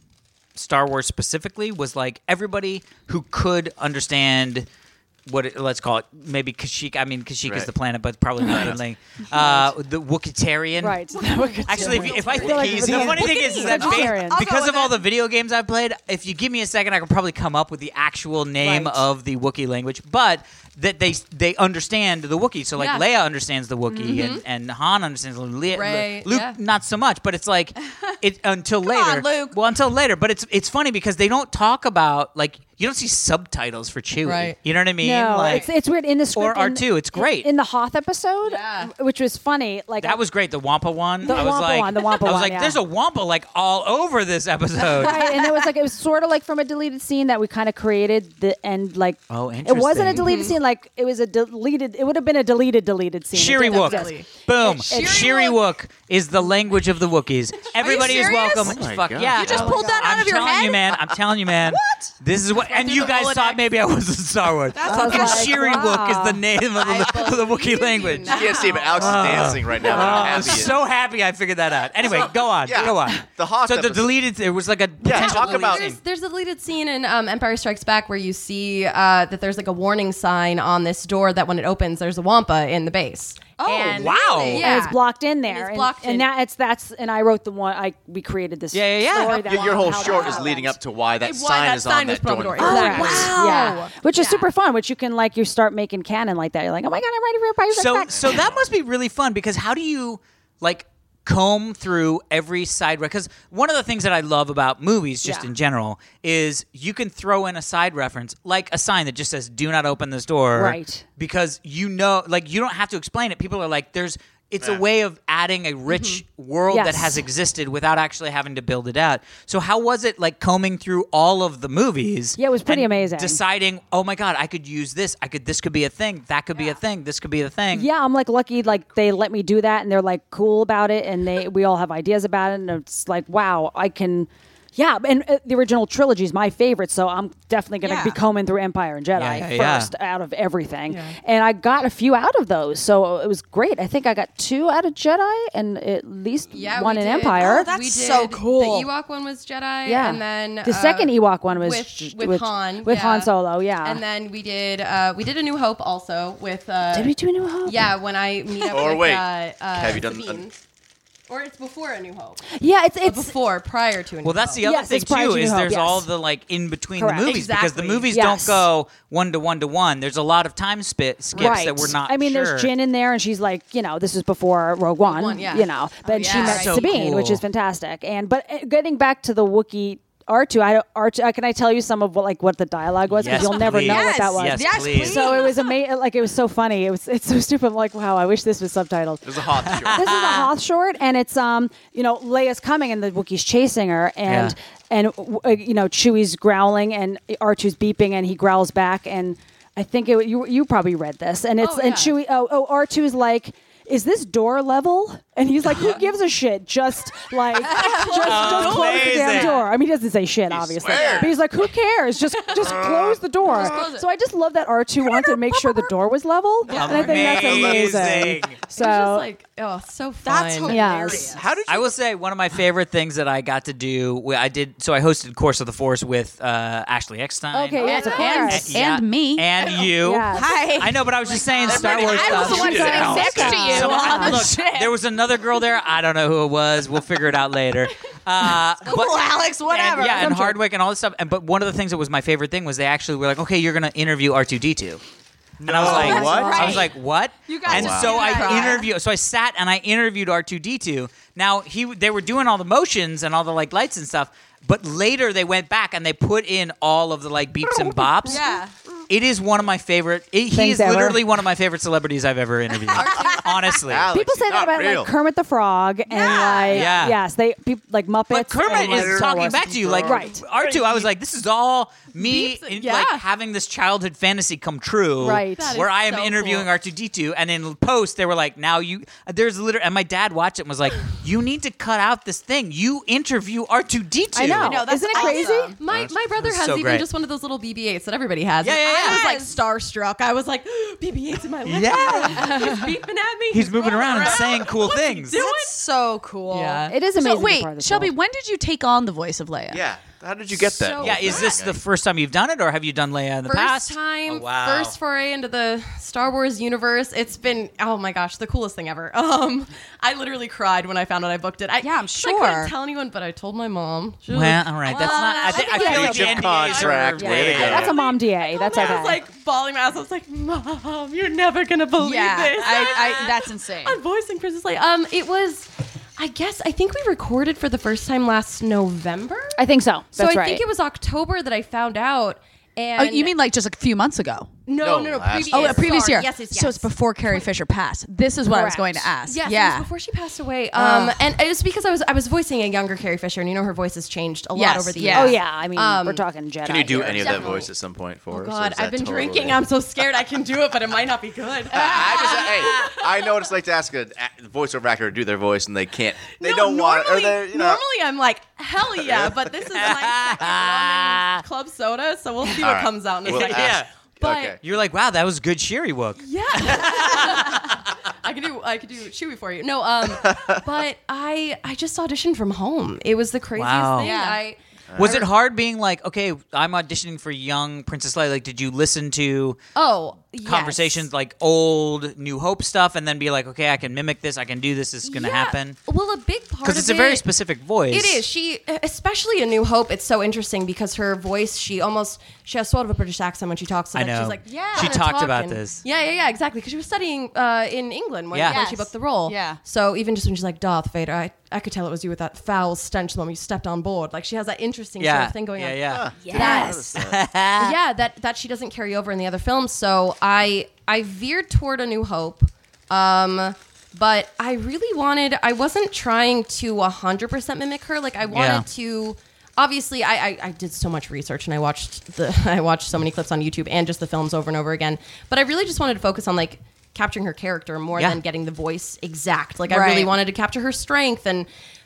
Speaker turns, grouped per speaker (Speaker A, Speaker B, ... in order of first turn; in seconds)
Speaker A: 0.6-4.7, 5.3-11.0, 11.7-35.7, 36.4-37.5, 40.0-45.4, 49.3-50.3, 53.3-76.0, 83.9-84.7, 88.7-89.5, 97.7-127.9, 139.2-139.9, 164.2-172.7, 176.5-177.4, 183.1-185.4, 189.7-190.5, 194.3-194.5, 208.1-209.6, 216.7-218.6, 221.7-245.0, 245.6-258.5, 259.1-264.2, 266.7-267.2, 268.3-284.8, 286.4-287.1, 288.6-289.2, 291.6-292.9, 293.5-295.4, 300.9-304.9, 314.3-318.0, 359.7-361.4, 363.3-367.8, 373.6-374.1, 375.0-379.6, 380.4-385.8, 386.6-388.3, 393.9-395.8, 398.3-398.6, 405.0-407.8, 418.3-418.7
Speaker B: 7.4-7.7, 8.4-8.8, 12.2-13.4, 58.6-59.9, 68.3-70.8, 72.6-74.1, 75.0-75.9, 89.3-93.3, 98.1-98.7, 158.7-160.4, 189.2-190.1, 210.5-211.4, 212.6-213.6, 217.3-218.3, 221.3-222.0, 231.6-233.8, 245.6-246.9, 247.7-248.5, 263.9-265.1, 268.6-271.1, 285.9-286.5, 299.7-301.8, 315.8-318.0, 334.8-336.0, 346.6-349.6, 351.7-357.8, 359.0-359.9, 362.6-364.6, 370.1-370.6, 374.9-375.3, 405.9-407.2
Speaker C: 9.3-9.7, 10.8-14.4, 18.6-19.0, 23.9-24.2, 35.0-40.2, 41.2-42.8, 44.9-54.2, 54.9-55.3, 64.9-66.4, 84.5-90.8, 92.6-98.4, 110.5-111.0, 116.7-117.2, 122.4-123.4, 127.7-147.7, 149.8-154.0, 156.9-157.9, 162.5-163.3, 164.6-166.1, 167.0-167.3, 168.1-168.7, 171.4-219.3, 220.7-221.3, 227.5-228.8, 230.0-230.5, 232.4-234.5, 240.0-240.6, 245.8-246.6, 260.5-261.2, 264.1-270.4, 275.2-275.7, 284.3-285.7, 296.9-298.1, 315.7-316.2, 317.2-319.2, 329.6-330.6, 338.5-339.1, 345.1-347.6
Speaker D: 11.8-15.0, 28.8-29.6, 54.6-55.6, 57.8-61.1, 62.6-63.6, 64.7-65.7, 68.3-68.8, 83.6-85.0, 92.6-94.3, 137.8-138.2, 147.4-148.9, 176.1-176.9, 183.4-185.7, 207.6-209.1, 213.4-214.1, 215.1-215.9, 220.2-221.4, 227.8-229.7, 230.3-234.9, 238.8-240.4, 245.8-248.9, 258.2-258.7, 262.9-263.8, 266.1-266.9, 272.8-273.2, 284.5-285.8, 288.9-289.5, 292.3-292.7, 293.9-299.8, 311.8-312.7, 314.9-316.4, 322.0-324.0, 333.0-334.5, 335.5-339.9, 340.8-341.2, 344.6-345.4, 347.4-347.6, 352.1-352.7, 374.0-374.4, 394.4-395.0, 398.4-399.6, 406.2-406.9, 429.7-430.1
Speaker E: 22.8-23.1, 24.1-24.4, 25.8-26.6, 34.2-34.6, 38.5-38.9, 50.1-50.5, 53.6-55.3, 57.8-58.6, 59.8-60.2, 62.7-63.3, 66.8-70.6, 75.1-86.3, 89.8-90.5, 91.2-94.4, 115.9-116.2, 140.9-141.2, 146.5-160.6, 161.3-164.6, 167.2-168.2, 171.3-171.7, 175.0-175.7, 176.2-176.9, 201.6-202.2, 207.8-209.5, 210.9-211.3, 216.7-217.4, 218.7-220.8, 227.8-228.3, 231.3-232.2, 238.8-239.5, 248.3-248.7, 262.9-263.5, 266.2-266.8, 272.1-273.2, 275.4-276.7, 284.8-295.8, 296.5-296.9, 300.6-301.5, 303.5-329.6, 330.1-333.3, 334.7-337.5, 339.3-346.2, 347.1-347.7, 348.3-353.4, 356.3-364.5, 366.2-374.6, 379.8-381.1, 385.1-387.3, 387.9-406.9, 407.6-431.5